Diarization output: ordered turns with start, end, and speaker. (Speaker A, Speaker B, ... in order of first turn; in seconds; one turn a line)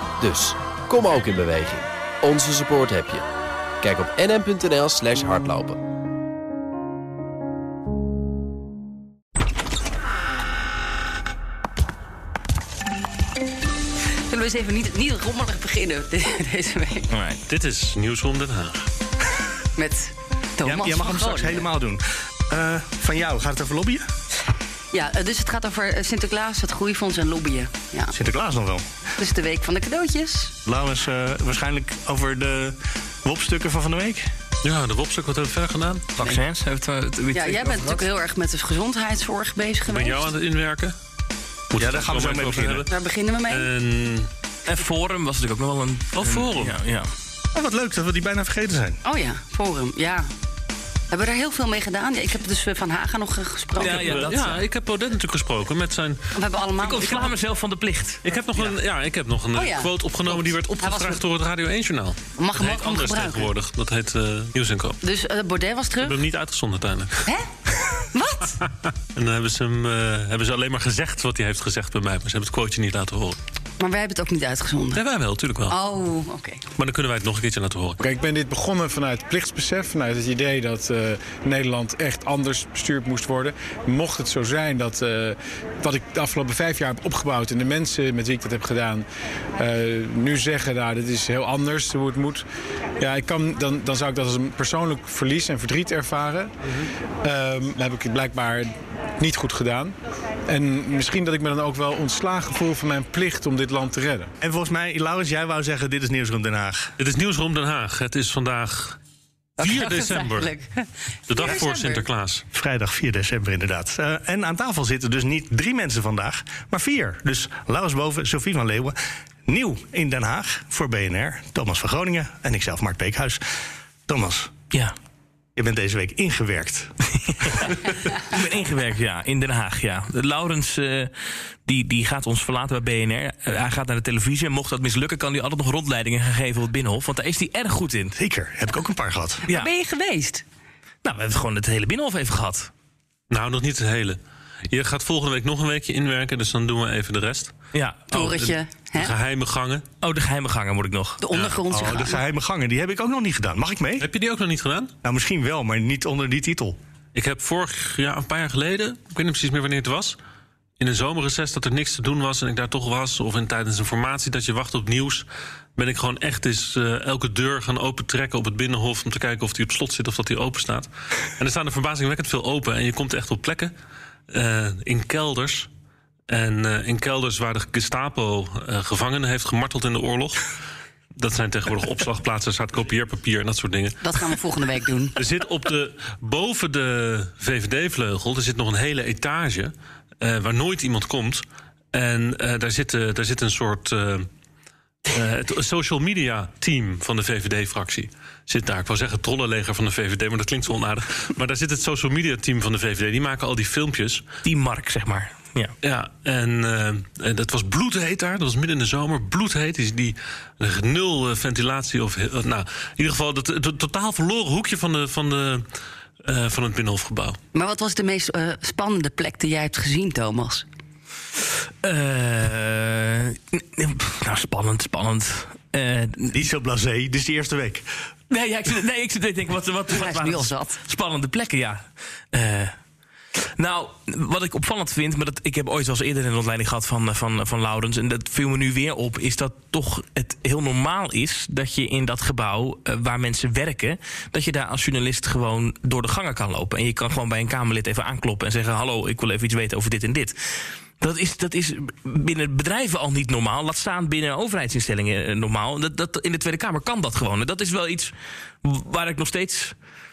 Speaker A: 0.2-3.2
Speaker A: 3.8-5.8
Speaker B: 14.3-17.1
Speaker C: 17.1-17.4
Speaker D: 17.5-18.9
Speaker B: 19.8-21.7
Speaker E: 20.6-24.1
Speaker B: 24.9-28.1
Speaker E: 28.1-28.9
Speaker B: 29.2-30.5
Speaker E: 30.6-34.3
Speaker D: 34.6-36.1
Speaker C: 36.2-38.0
Speaker B: 37.3-40.3
Speaker D: 39.9-41.0
Speaker D: 41.7-42.9
Speaker E: 41.8-42.8
Speaker B: 42.9-43.7
Speaker D: 43.5-44.3
Speaker C: 44.7-47.1
Speaker D: 46.1-46.7
Speaker E: 47.5-49.0
Speaker B: 49.0-50.3
Speaker B: 51.1-54.3
Speaker C: 53.8-54.6
Speaker D: 53.8-56.2
Speaker B: 56.3-57.3
Speaker C: 56.8-58.2
Speaker D: 58.2-65.0
Speaker B: 59.5-61.2
Speaker B: 62.4-63.5
Speaker B: 65.0-66.2
Speaker D: 66.0-67.3
Speaker B: 68.1-68.6
Speaker D: 69.1-73.4
Speaker B: 73.8-75.0
Speaker D: 74.9-75.8
Speaker B: 75.7-76.6
Speaker D: 76.8-78.0
Speaker F: 78.0-89.0
Speaker F: 89.6-92.4
Speaker F: 93.0-96.5
Speaker F: 97.2-99.9
Speaker F: 100.5-104.3
Speaker E: 104.4-106.9
Speaker D: 107.0-109.0
Speaker D: 109.6-110.5
Speaker B: 109.6-112.0
Speaker D: 111.3-112.4
Speaker E: 112.5-123.4
Speaker E: 124.1-124.5
Speaker E: 125.5-126.9
Speaker C: 127.2-131.1
Speaker E: 127.4-127.8
Speaker C: 131.7-138.1
Speaker E: 138.2-139.4
Speaker B: 139.4-140.4
Speaker C: 141.0-142.7
Speaker D: 143.3-144.2
Speaker D: 144.7-147.5
Speaker C: 147.7-148.0
Speaker B: 148.1-149.1
Speaker D: 148.1-149.8
Speaker C: 150.0-151.2
Speaker B: 151.2-152.2
Speaker E: 151.7-154.1
Speaker D: 154.0-154.9
Speaker E: 155.0-156.8
Speaker D: 157.1-160.2
Speaker D: 160.8-173.7
Speaker D: 174.3-175.7
Speaker D: 176.3-180.5
Speaker D: 181.2-184.4
Speaker B: 184.0-185.2
Speaker D: 185.2-191.4
Speaker D: 191.9-194.3
Speaker D: 195.1-204.2
Speaker C: 204.4-205.7
Speaker D: 205.8-215.6
Speaker D: 216.2-217.4
Speaker B: 217.5-220.7
Speaker C: 221.8-226.3
Speaker E: 226.3-227.8
Speaker C: 228.3-232.7
Speaker B: 229.9-230.8
Speaker C: 233.6-250.3
Speaker C: 251.0-258.1
Speaker C: 258.6-259.7